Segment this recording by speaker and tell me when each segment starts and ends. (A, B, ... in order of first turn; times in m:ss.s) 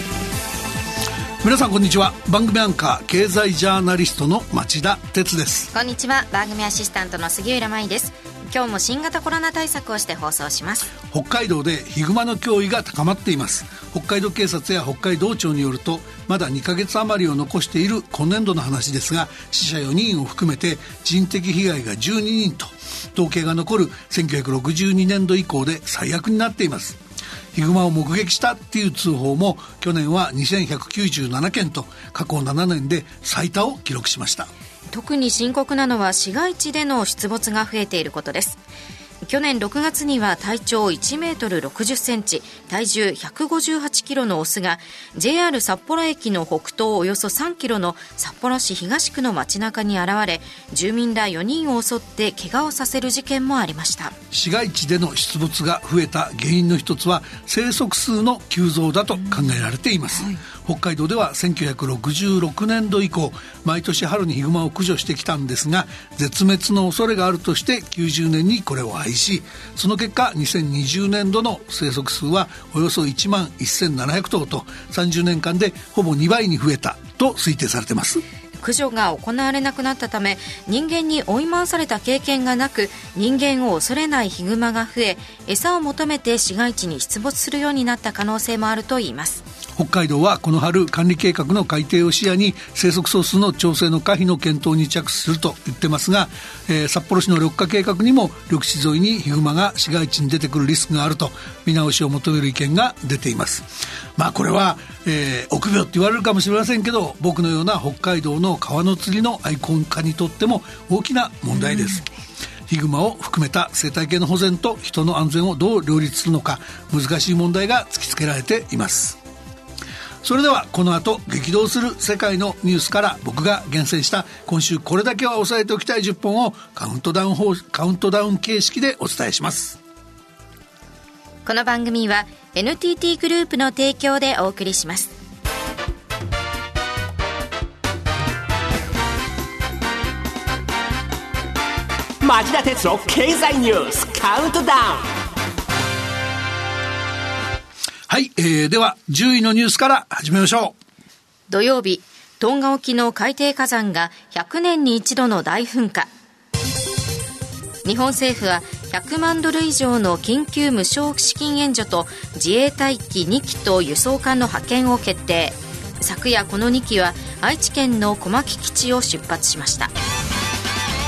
0:01.4-0:05.7 A
0:05.7-0:10.9 B
0:11.1-0:27.0 A
0:27.5-0:34.5 A
0:34.9-0:38.6 B
0:39.2-0:54.1 B
0:54.3-1:18.2 A
1:18.6-1:29.4 B
1:29.8-1:52.0 A
1:52.7-1:59.2 A
2:00.2-2:09.8 A
2:11.4-2:15.1 B
2:22.2-2:25.1 C
2:28.1-2:30.7 A
2:31.5-2:36.1 B
2:37.8-2:49.9 B